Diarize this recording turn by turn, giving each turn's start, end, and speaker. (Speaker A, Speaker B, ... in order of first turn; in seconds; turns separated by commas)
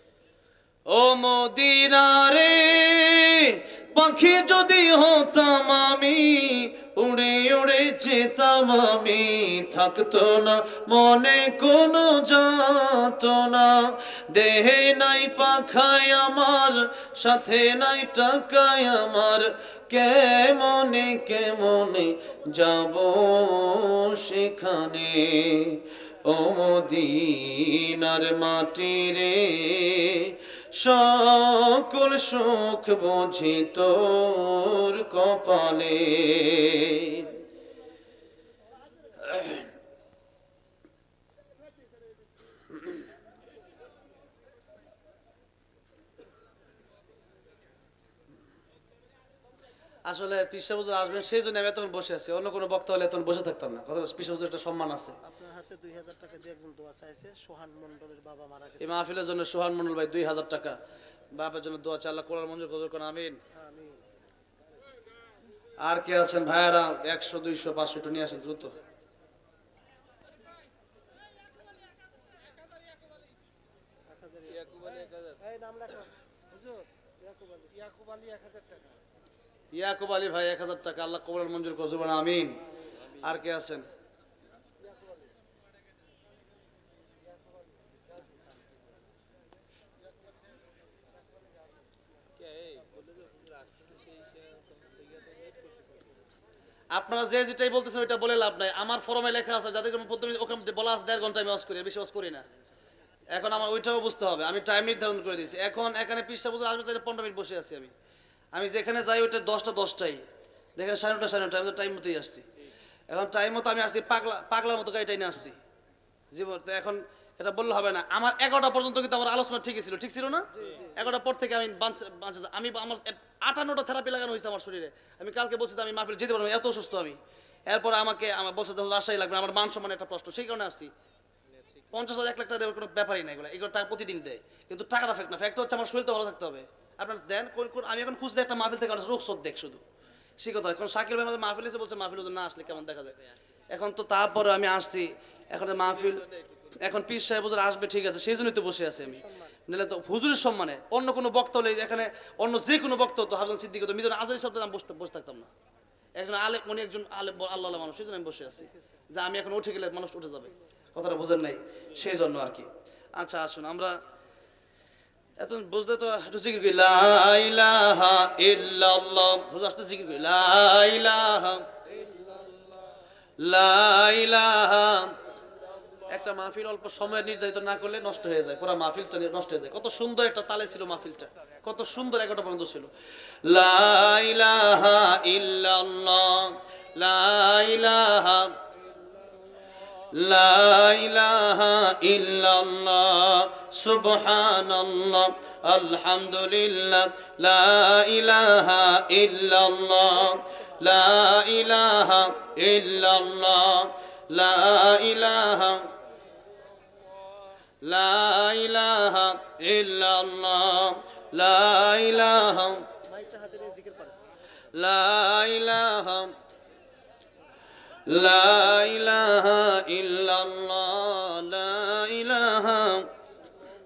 Speaker A: 0.9-37.3, Speaker A: 39.2-39.6, Speaker A: 50.1-55.2, Speaker B: 55.2-59.1, Speaker A: 58.8-60.8, Speaker A: 61.3-63.4, Speaker B: 63.5-64.0, Speaker A: 65.8-68.8, Speaker B: 74.1-74.8, Speaker C: 74.5-75.4, Speaker B: 75.4-76.1, Speaker B: 77.2-77.9, Speaker A: 79.7-82.6, Speaker A: 83.2-83.9, Speaker C: 92.4-96.1, Speaker A: 96.9-102.5, Speaker A: 103.3-107.9, Speaker A: 108.5-110.2, Speaker A: 110.8-112.4, Speaker A: 113.1-115.6, Speaker A: 116.3-130.9, Speaker B: 120.5-121.1, Speaker C: 131.6-131.8, Speaker A: 131.9-139.8, Speaker A: 140.4-143.1, Speaker A: 143.7-146.2, Speaker C: 146.2-146.7, Speaker A: 146.8-155.5, Speaker B: 149.0-149.6, Speaker A: 156.2-164.0, Speaker A: 165.4-171.7, Speaker B: 171.9-172.8, Speaker A: 173.4-175.2, Speaker A: 176.1-182.9, Speaker A: 183.5-188.6, Speaker B: 188.8-189.5, Speaker A: 190.1-205.9, Speaker A: 207.8-212.9, Speaker B: 213.0-214.2, Speaker A: 214.8-216.3, Speaker A: 218.1-223.1